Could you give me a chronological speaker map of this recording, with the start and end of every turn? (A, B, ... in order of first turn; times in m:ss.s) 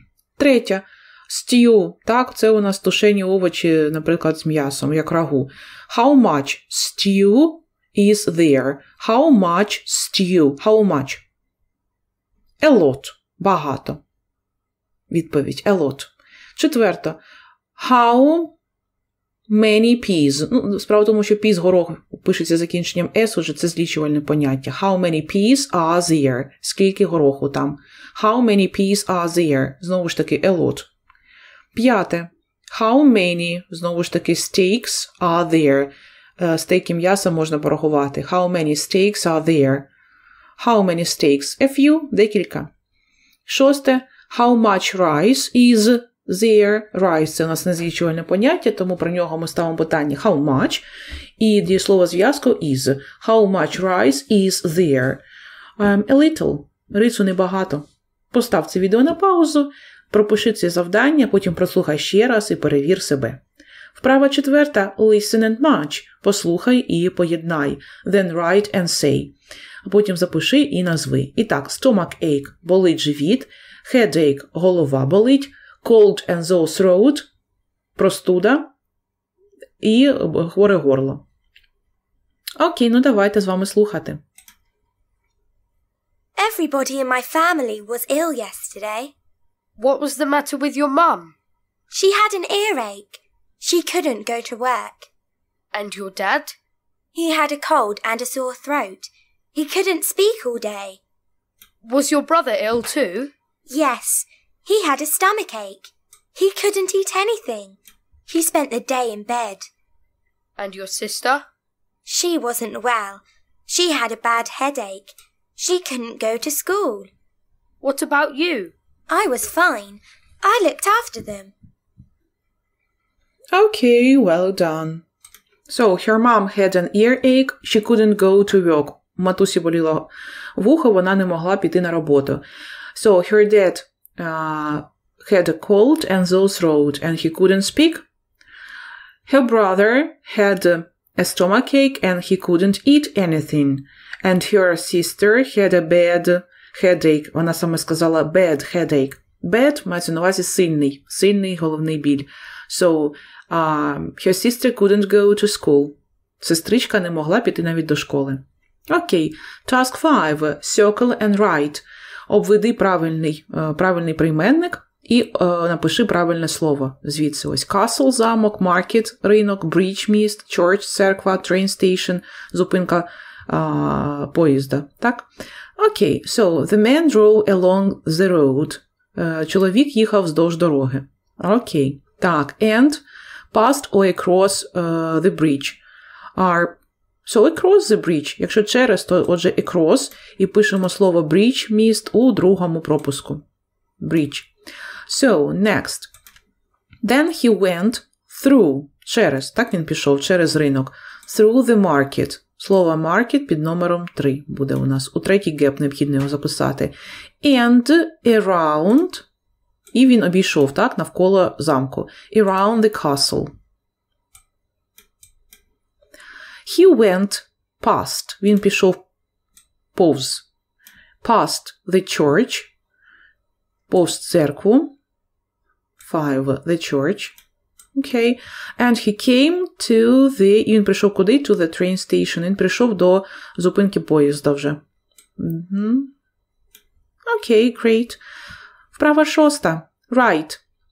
0:00.4-0:11.2 A
0:12.6-0:14.0 A
0:15.1-0:17.2 A
0:17.8-0:18.5 A
0:19.5-0:30.9 A
0:31.7-0:39.9 A
0:40.6-0:42.7 A
0:43.4-0:50.8 A
0:51.4-0:55.2 A
0:55.8-1:03.4 A
1:03.9-1:17.3 A
1:18.0-1:18.7 A
1:19.8-1:21.2 A
1:22.6-1:24.2 A
1:26.4-1:29.1 B
1:29.8-1:31.3 C
1:31.9-1:35.1 B
1:35.7-1:36.6 C
1:37.1-1:41.0 B
1:41.8-1:43.3 C
1:43.7-1:49.7 B
1:50.6-1:51.4 C
1:52.0-1:57.1 B
1:57.8-1:58.7 C
1:59.1-2:01.5 B
2:03.5-2:05.0 A
2:05.7-2:12.4 A
2:12.9-2:18.0 A
2:19.2-3:05.8 A
3:06.3-3:13.4 A
3:14.0-3:14.5 A
3:15.1-3:16.1 A
3:17.0-3:29.2 A
3:29.9-3:33.5 A
3:36.6-3:39.0 A
3:39.9-3:40.5 A
3:41.2-3:42.7 A
3:43.9-3:44.9 A
3:46.0-3:47.4 A
3:47.9-3:54.8 A
3:55.4-3:56.1 A
3:57.2-3:58.2 A
3:58.9-4:00.6 A